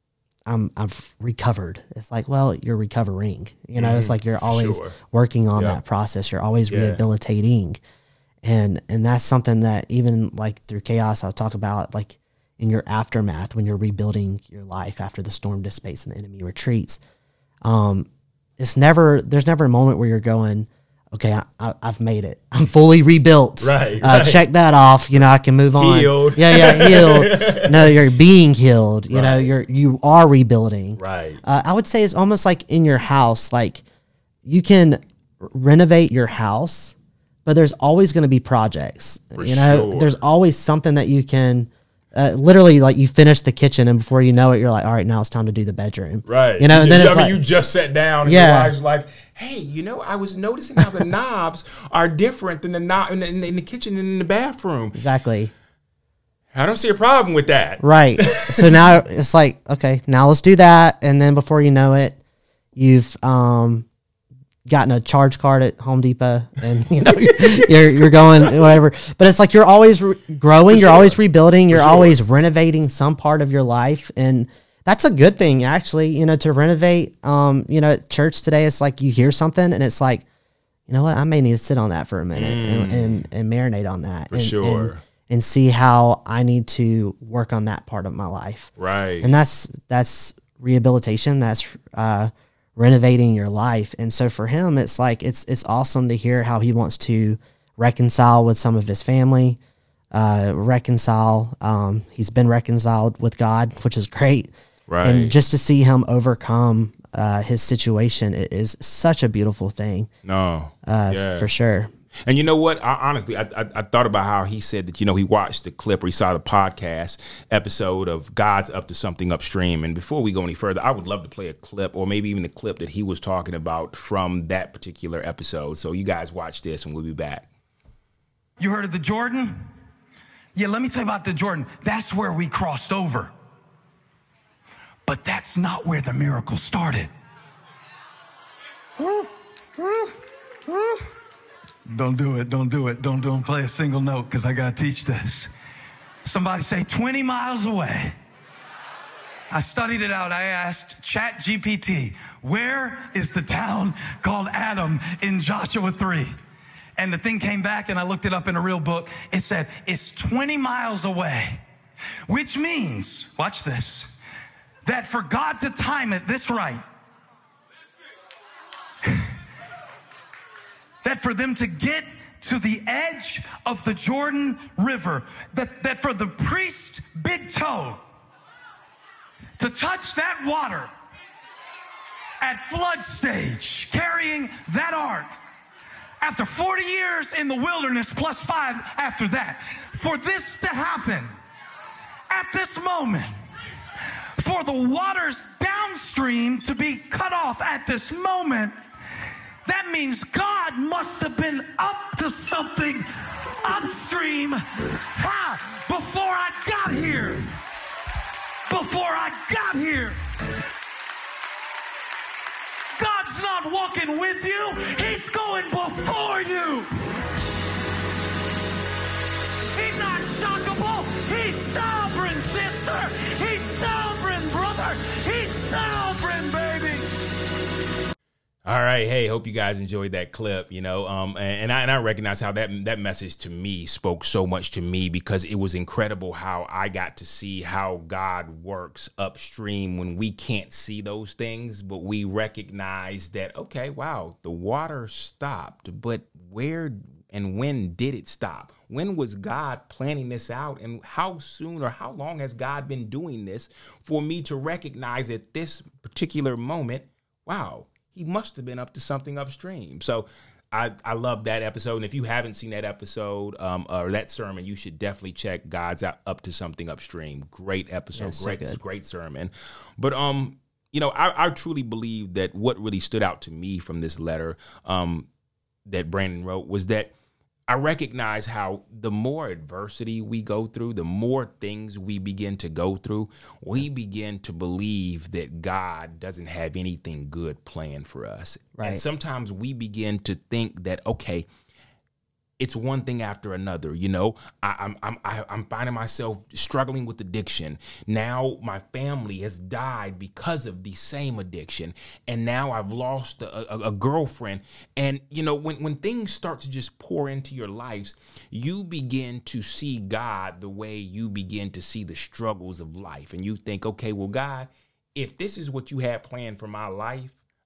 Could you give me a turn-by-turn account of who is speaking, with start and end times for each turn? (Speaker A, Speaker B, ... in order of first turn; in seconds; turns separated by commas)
Speaker A: 0.5-7.8, Speaker B: 3.8-5.0, Speaker B: 5.5-5.8, Speaker B: 6.7-7.0, Speaker A: 8.4-17.0, Speaker A: 17.6-33.8, Speaker B: 23.6-24.5, Speaker B: 25.8-28.0, Speaker B: 29.1-29.5, Speaker B: 31.0-31.4, Speaker A: 34.5-47.4, Speaker B: 39.4-40.2, Speaker B: 46.3-55.0, Speaker A: 48.2-48.8, Speaker A: 55.0-55.5, Speaker B: 56.5-58.9, Speaker A: 57.8-62.2, Speaker A: 62.8-63.9, Speaker A: 64.7-80.2, Speaker B: 67.1-68.8, Speaker B: 70.7-71.2, Speaker B: 71.7-72.2, Speaker A: 80.9-88.7, Speaker B: 82.3-83.3, Speaker B: 84.3-85.0, Speaker B: 88.8-89.3, Speaker A: 89.2-99.6, Speaker A: 100.1-104.5, Speaker B: 104.9-105.4, Speaker A: 105.0-110.1, Speaker B: 110.2-111.5, Speaker A: 110.8-111.9, Speaker B: 112.3-127.5, Speaker C: 128.6-129.6, Speaker C: 130.6-133.3, Speaker C: 135.1-137.1, Speaker C: 139.0-140.2, Speaker C: 140.7-141.0, Speaker C: 141.9-145.5, Speaker C: 146.2-148.2, Speaker C: 149.5-156.4, Speaker C: 157.0-161.6, Speaker C: 162.3-164.1, Speaker C: 164.8-166.8, Speaker C: 171.0-178.0, Speaker C: 179.6-180.9, Speaker C: 182.4-185.3, Speaker C: 186.2-191.3, Speaker C: 192.3-193.3, Speaker C: 194.4-198.8, Speaker C: 199.7-203.1, Speaker C: 203.6-207.5, Speaker C: 208.7-210.2, Speaker C: 213.0-216.9, Speaker C: 219.7-227.1, Speaker B: 228.7-275.3, Speaker A: 268.1-268.8, Speaker B: 275.9-277.1, Speaker B: 277.7-291.5, Speaker A: 288.8-289.0, Speaker B: 292.6-317.4